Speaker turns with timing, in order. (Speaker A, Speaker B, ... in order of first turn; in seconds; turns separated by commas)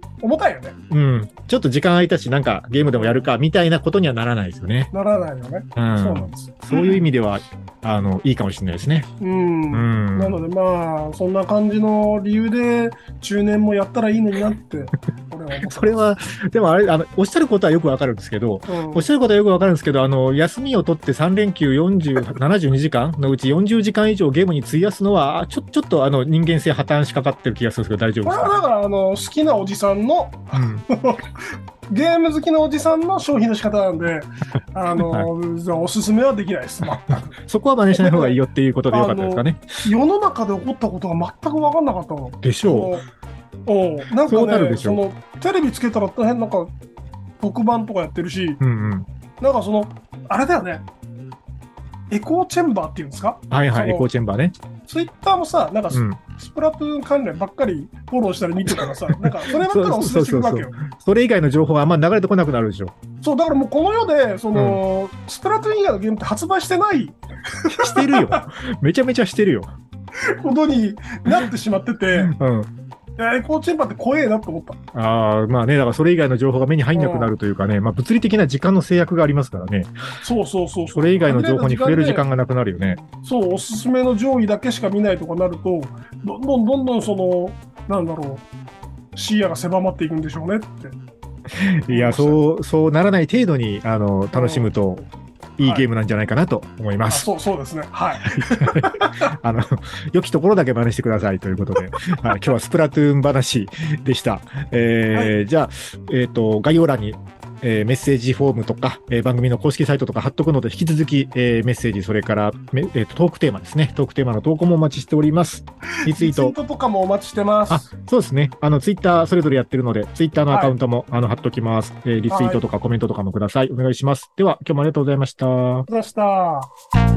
Speaker A: 0.2-0.8, Speaker B: 0.9-4.9, Speaker A: 2.9-3.2, Speaker A: 4.9-7.0, Speaker B: 5.8-9.1, Speaker A: 9.2-15.9, Speaker B: 9.7-10.4, Speaker B: 15.6-28.5, Speaker A: 18.7-19.1, Speaker A: 28.2-37.4, Speaker B: 30.5-30.8, Speaker B: 35.0-35.3, Speaker B: 37.1-39.9, Speaker A: 37.9-38.4, Speaker A: 38.9-43.0, Speaker B: 42.4-42.9, Speaker A: 43.7-46.7, Speaker B: 44.3-45.0, Speaker A: 47.4-48.6, Speaker B: 48.6-49.1, Speaker A: 49.4-50.9, Speaker A: 52.1-54.1, Speaker B: 53.5-54.5, Speaker A: 54.9-60.8, Speaker B: 55.9-56.2, Speaker B: 59.4-62.9, Speaker A: 63.2-68.4, Speaker B: 64.5-64.8, Speaker B: 67.7-69.7, Speaker A: 70.4-72.3, Speaker B: 72.2-72.7, Speaker A: 73.2-74.8, Speaker B: 74.9-79.9, Speaker A: 76.9-77.3, Speaker A: 80.2-82.2, Speaker B: 80.9-83.0, Speaker A: 83.2-88.5, Speaker A: 89.1-91.0, Speaker B: 91.5-95.1, Speaker A: 91.9-92.4, Speaker A: 94.3-94.7, Speaker B: 95.6-97.3, Speaker A: 95.6-95.8, Speaker A: 97.1-99.3, Speaker B: 98.2-116.5, Speaker A: 116.0-117.9, Speaker B: 117.7-125.9, Speaker A: 120.5-120.7, Speaker A: 122.3-122.6, Speaker A: 125.9-126.7